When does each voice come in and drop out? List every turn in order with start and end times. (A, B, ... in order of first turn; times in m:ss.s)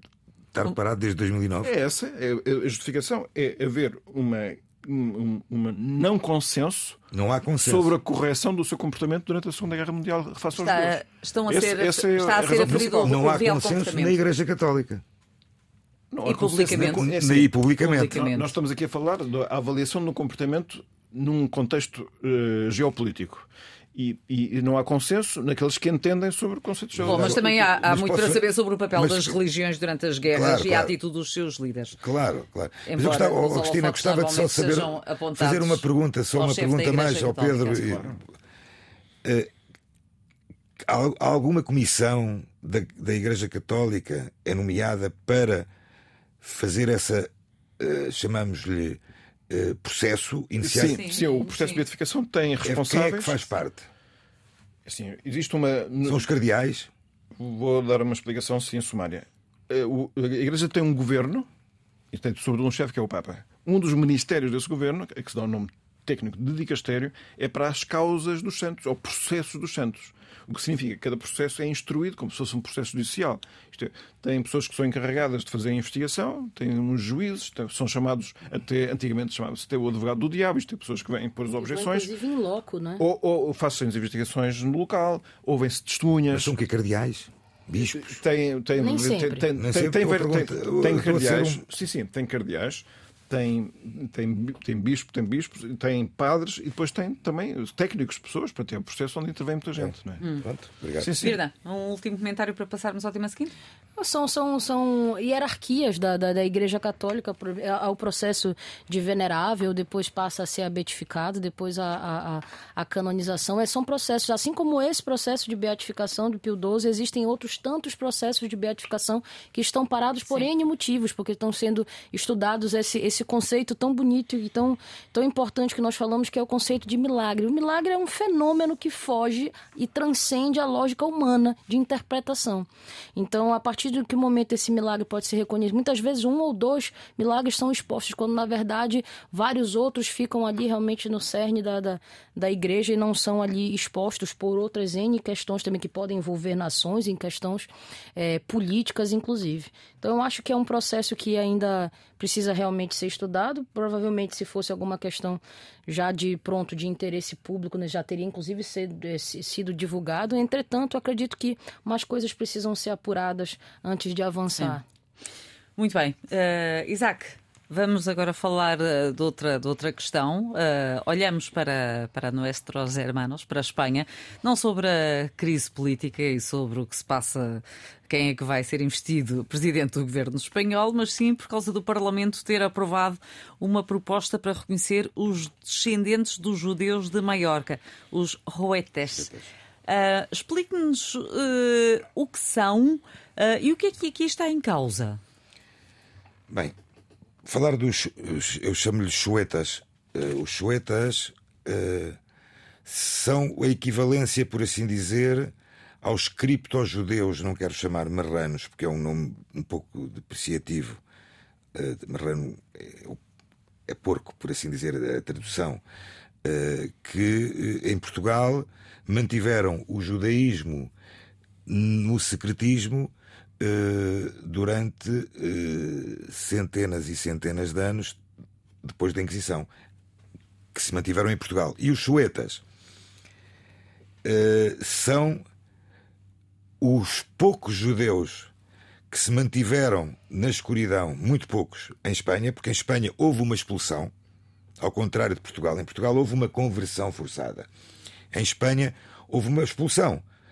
0:00.5-0:01.7 A
0:01.6-0:07.0 B
0:07.1-0:07.9 A
0:07.6-0:13.3 B
0:10.5-0:14.2 C
0:12.6-0:15.0 A
0:16.1-0:17.5 B
0:16.2-0:17.1 C
0:16.7-0:18.2 A
0:17.8-0:18.5 C
0:18.0-0:27.6 B
0:26.9-0:29.4 A
0:27.0-0:32.0 C
0:30.3-0:30.9 A
0:32.0-0:38.1 A
0:32.8-0:35.8 C
0:36.3-0:38.0 C
0:37.8-0:38.2 B
0:39.2-0:39.5 A
0:40.8-0:45.7 A
0:46.4-0:51.0 A
0:50.6-0:53.4 B
0:50.8-0:51.8 C
0:52.6-0:53.9 A
0:54.8-0:56.3 B
0:56.0-0:56.9 A
0:57.4-1:01.5 B
1:02.1-1:22.1 B
1:21.6-1:23.0 D
1:23.0-1:26.5 B
1:26.3-1:28.1 A
1:27.8-1:40.2 B
1:28.8-1:29.5 D
1:29.6-1:31.6 A
1:39.8-1:41.3 A
1:40.2-1:40.4 C
1:41.0-1:41.4 B
1:41.1-1:43.5 C
1:44.0-2:44.8 D
2:45.8-3:09.3 C
3:09.1-3:09.5 A
3:09.9-3:15.2 C
3:16.5-3:16.7 A
3:17.4-3:22.2 A
3:22.8-3:31.0 A
3:31.7-3:33.2 A
3:33.9-3:35.8 A
3:36.4-3:40.9 A
3:41.6-3:48.2 A
3:48.8-3:49.7 A
3:50.7-3:52.6 A
3:54.2-3:55.4 A
3:56.8-3:58.5 A
3:59.1-4:04.1 A
4:04.8-4:07.7 A
4:08.3-4:10.2 A